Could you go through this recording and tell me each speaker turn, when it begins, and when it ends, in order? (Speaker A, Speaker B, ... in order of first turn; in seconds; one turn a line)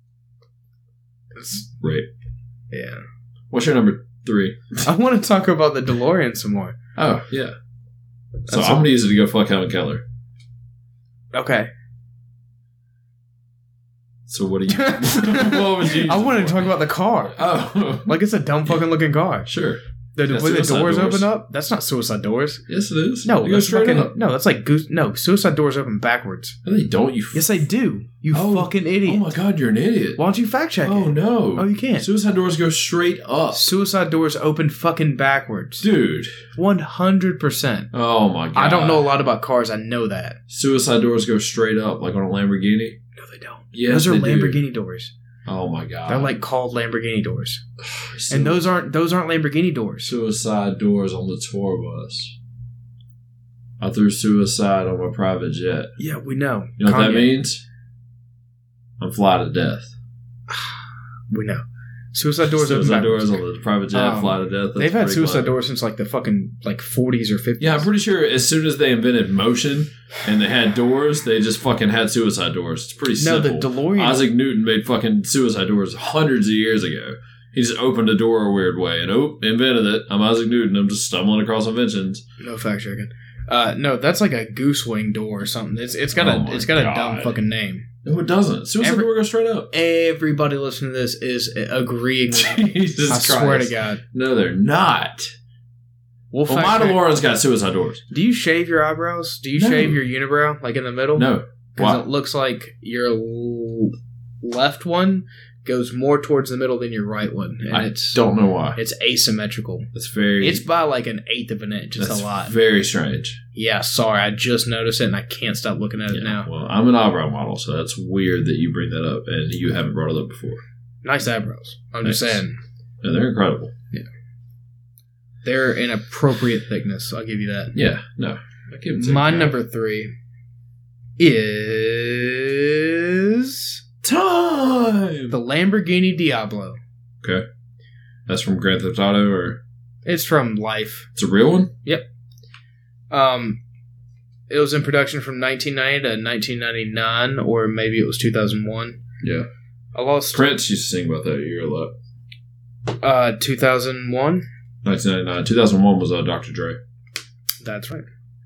Speaker A: 1.3-1.7
Speaker B: 1.8-2.1
Speaker A: 2.7-3.0
Speaker B: 3.5-4.8
Speaker A: 4.8-6.8
Speaker B: 7.0-7.5
Speaker A: 8.5-8.8
Speaker B: 8.5-10.0
Speaker A: 11.3-11.7
Speaker B: 14.3-16.7
Speaker A: 14.7-17.4
Speaker B: 17.3-18.2
Speaker A: 18.0-19.5
Speaker B: 19.5-21.3
Speaker A: 20.1-22.6
Speaker B: 22.7-24.1
Speaker A: 23.2-26.6
Speaker B: 26.6-27.6
Speaker A: 27.3-29.3
Speaker B: 28.3-30.2
Speaker A: 30.2-32.1
Speaker B: 30.8-33.6
Speaker A: 33.5-35.9
Speaker B: 35.8-36.4
Speaker A: 36.5-37.9
Speaker B: 37.9-39.1
Speaker A: 38.5-40.4
Speaker B: 40.5-43.0
Speaker A: 43.1-45.1
Speaker B: 43.7-44.6
Speaker B: 45.5-46.3
Speaker A: 46.1-47.6
Speaker B: 47.8-48.6
Speaker A: 48.3-50.1
Speaker B: 50.0-52.3
Speaker B: 53.8-55.9
Speaker A: 56.0-57.3
Speaker B: 56.8-57.6
Speaker B: 59.0-59.9
Speaker A: 60.5-60.8
Speaker A: 61.3-63.4
Speaker B: 62.5-65.5
Speaker A: 63.9-67.9
Speaker B: 67.6-82.2
Speaker A: 73.2-74.2
Speaker A: 82.4-87.9
Speaker B: 86.1-87.4
Speaker B: 88.0-89.7
Speaker A: 88.8-89.1
Speaker A: 89.7-94.0
Speaker B: 92.3-95.3
Speaker A: 96.3-97.0
Speaker B: 96.5-98.0
Speaker A: 98.1-108.2
Speaker B: 99.6-100.0
Speaker B: 101.1-102.0
Speaker B: 107.7-108.8
Speaker A: 108.7-112.6
Speaker B: 109.9-110.6
Speaker B: 112.0-113.4
Speaker A: 113.5-116.5
Speaker B: 116.1-120.6
Speaker A: 121.0-122.6
Speaker B: 122.0-122.4
Speaker B: 123.0-123.7
Speaker A: 125.4-127.7
Speaker B: 127.7-129.6
Speaker A: 128.9-130.1
Speaker A: 131.2-133.8
Speaker B: 134.0-135.3
Speaker A: 135.3-136.8
Speaker B: 138.3-139.6
Speaker A: 140.0-141.1
Speaker B: 141.1-141.7
Speaker A: 143.1-143.6
Speaker A: 144.5-149.0
Speaker B: 149.2-149.5
Speaker A: 149.9-150.4
Speaker B: 150.3-151.9
Speaker A: 153.0-154.4
Speaker B: 154.8-156.8
Speaker A: 157.6-158.1